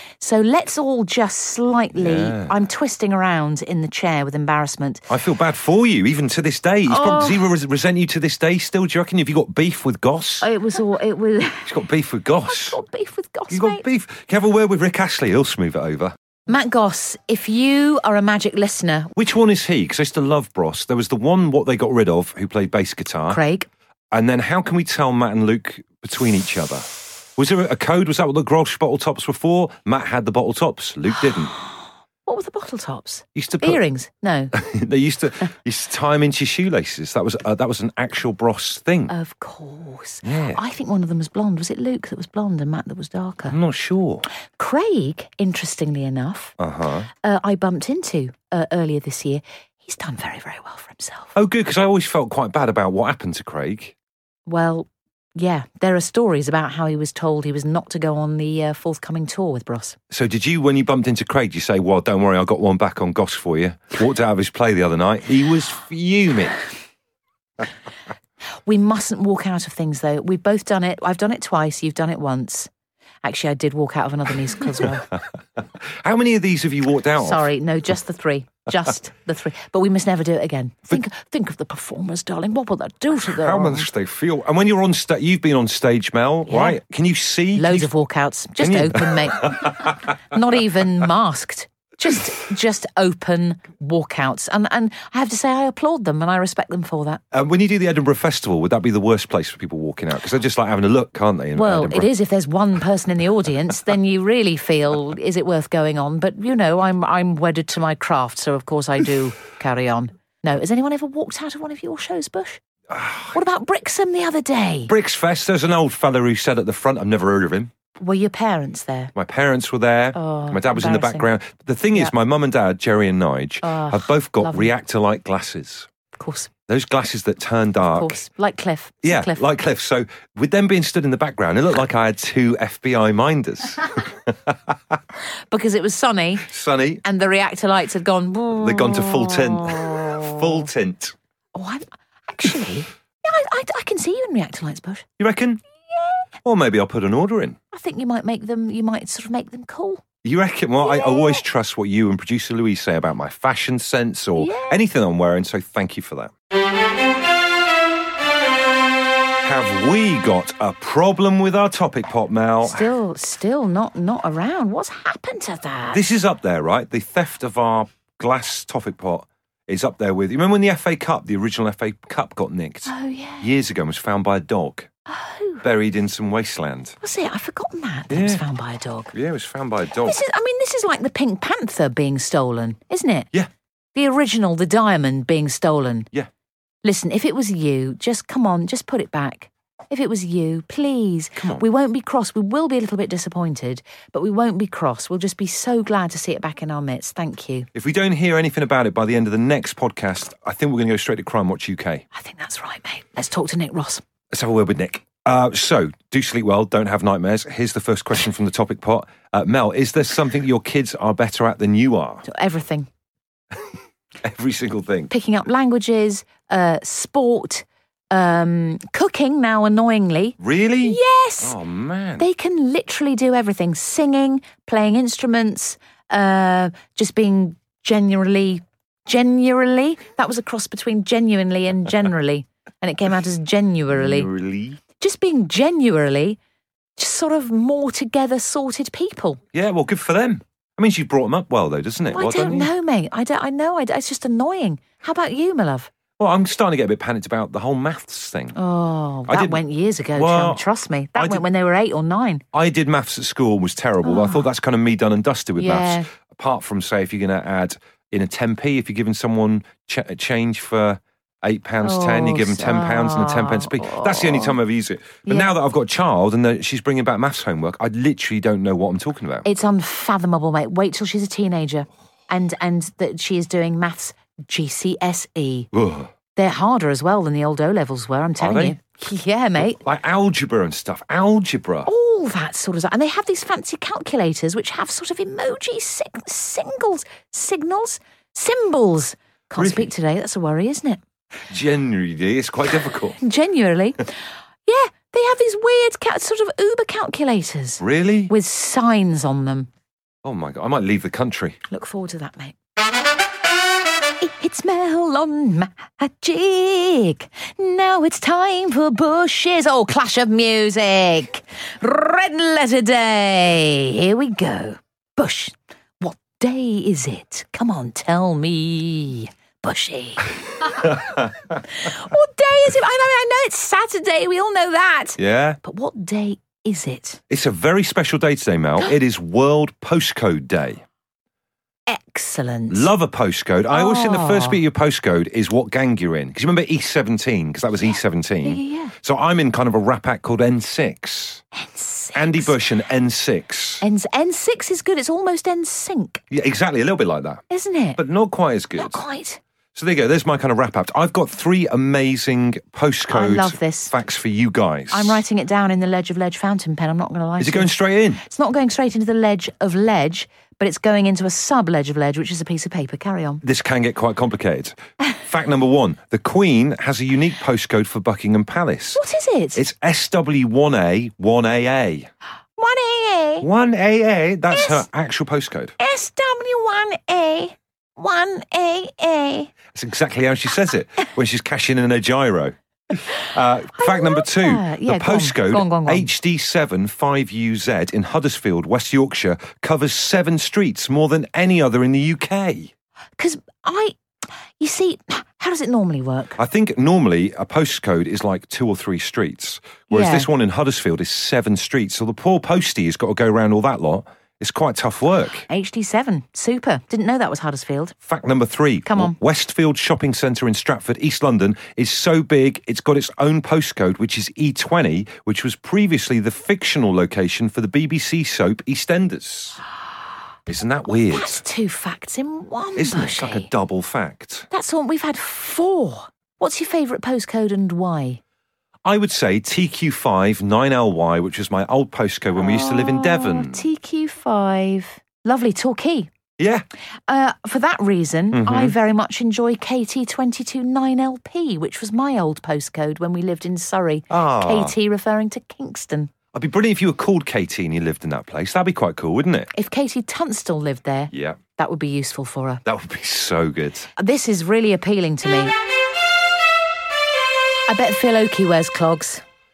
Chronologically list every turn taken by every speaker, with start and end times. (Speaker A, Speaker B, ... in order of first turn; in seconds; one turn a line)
Speaker A: 0.2-5.0
Speaker B: 1.9-2.5
Speaker B: 5.1-10.5
Speaker A: 6.9-7.5
Speaker A: 10.4-11.8
Speaker B: 11.7-12.8
Speaker A: 12.5-13.8
Speaker B: 13.5-16.1
Speaker A: 16.5-19.1
Speaker B: 19.2-23.4
Speaker A: 23.3-23.7
Speaker B: 24.1-31.5
Speaker A: 31.5-34.5
Speaker B: 33.4-33.8
Speaker B: 34.5-39.1
Speaker A: 39.1-43.6
Speaker B: 40.2-40.6
Speaker B: 43.5-44.3
Speaker A: 44.5-46.5
Speaker B: 46.6-47.1
Speaker A: 47.2-51.3
Speaker B: 51.4-54.0
Speaker A: 54.5-60.0
Speaker B: 60.1-66.6
Speaker A: 68.7-72.7
Speaker A: 73.2-75.1
Speaker B: 76.0-77.5
Speaker A: 77.2-83.9
Speaker B: 83.3-87.9
Speaker A: 86.5-86.8
Speaker A: 87.5-97.2
Speaker B: 88.6-89.6
Speaker B: 97.3-102.1
Speaker A: 101.5-112.6
Speaker B: 112.9-113.4
Speaker A: 113.3-114.9
Speaker B: 114.9-117.7
Speaker A: 118.0-119.1
Speaker B: 119.2-125.9
Speaker A: 120.2-121.3
Speaker A: 123.6-124.7
Speaker A: 126.2-126.5
Speaker B: 126.7-128.2
Speaker A: 127.9-129.5
Speaker B: 129.0-134.6
Speaker A: 135.5-136.5
Speaker B: 136.5-137.0
Speaker A: 137.0-140.4
Speaker B: 138.5-141.1
Speaker A: 141.6-145.1
Speaker B: 145.2-145.6
Speaker B: 146.4-147.6
Speaker A: 147.7-150.0
Speaker B: 150.2-156.3
Speaker A: 150.9-151.4
Speaker A: 154.4-154.8
Speaker B: 159.4-162.9
Speaker A: 162.6-166.0
Speaker B: 165.9-174.9
Speaker A: 172.9-173.5
Speaker A: 175.1-175.7
Speaker B: 175.6-176.9
Speaker A: 177.0-179.1
Speaker B: 178.1-178.4
Speaker B: 179.1-180.2
Speaker A: 180.0-183.3
Speaker A: 183.9-186.1
Speaker A: 186.8-197.7
Speaker B: 197.8-202.1
Speaker A: 202.1-204.0
Speaker B: 204.3-212.2
Speaker A: 212.3-212.9
Speaker B: 214.2-215.1
Speaker A: 215.1-221.6
Speaker B: 220.4-222.3
Speaker A: 222.2-234.3
Speaker B: 233.9-234.8
Speaker A: 235.0-236.4
Speaker A: 237.0-239.4
Speaker B: 239.5-242.7
Speaker A: 242.1-245.9
Speaker B: 246.2-248.6
Speaker A: 248.6-252.4
Speaker B: 249.3-249.6
Speaker B: 250.2-250.6
Speaker B: 251.2-251.4
Speaker B: 252.5-269.5
Speaker A: 254.0-254.5
Speaker A: 255.6-256.1
Speaker A: 261.8-264.6
Speaker A: 265.3-265.5
Speaker A: 269.4-275.7
Speaker B: 275.7-276.1
Speaker A: 276.4-279.8
Speaker B: 278.4-278.8
Speaker B: 279.6-281.9
Speaker A: 281.9-291.0
Speaker B: 289.6-289.9
Speaker B: 291.5-293.2
Speaker A: 293.2-294.1
Speaker A: 294.7-299.7
Speaker B: 297.8-298.3
Speaker B: 300.2-301.6
Speaker A: 301.7-302.6
Speaker A: 304.2-327.2
Speaker B: 325.2-325.6
Speaker B: 327.3-330.8
Speaker A: 331.9-332.9
Speaker B: 332.7-341.4
Speaker A: 333.7-334.6
Speaker A: 338.4-338.9
Speaker A: 341.5-342.6
Speaker B: 342.1-343.8
Speaker A: 343.8-346.2
Speaker B: 346.3-347.4
Speaker A: 347.5-348.0
Speaker B: 348.0-349.0
Speaker A: 348.8-349.4
Speaker B: 349.8-355.2
Speaker A: 353.1-353.9
Speaker A: 354.9-363.4
Speaker B: 357.4-358.2
Speaker B: 363.4-369.0
Speaker A: 368.9-369.6
Speaker B: 369.6-372.1
Speaker A: 372.6-373.5
Speaker B: 373.4-375.7
Speaker A: 374.5-374.9
Speaker A: 375.8-379.5
Speaker B: 379.7-392.7
Speaker A: 383.8-386.1
Speaker A: 393.2-394.0
Speaker A: 394.6-396.4
Speaker B: 396.4-405.4
Speaker A: 399.9-400.3
Speaker A: 405.5-407.9
Speaker B: 408.1-419.6
Speaker A: 408.9-409.1
Speaker B: 420.5-421.4
Speaker A: 420.9-423.5
Speaker B: 422.8-424.5
Speaker A: 424.5-428.2
Speaker B: 428.9-433.7
Speaker A: 432.4-436.1
Speaker B: 436.4-436.7
Speaker A: 437.1-446.1
Speaker B: 438.3-438.8
Speaker B: 444.1-444.8
Speaker B: 446.3-449.5
Speaker A: 449.5-452.6
Speaker B: 451.1-451.4
Speaker B: 452.6-453.9
Speaker A: 454.0-455.5
Speaker A: 457.7-459.2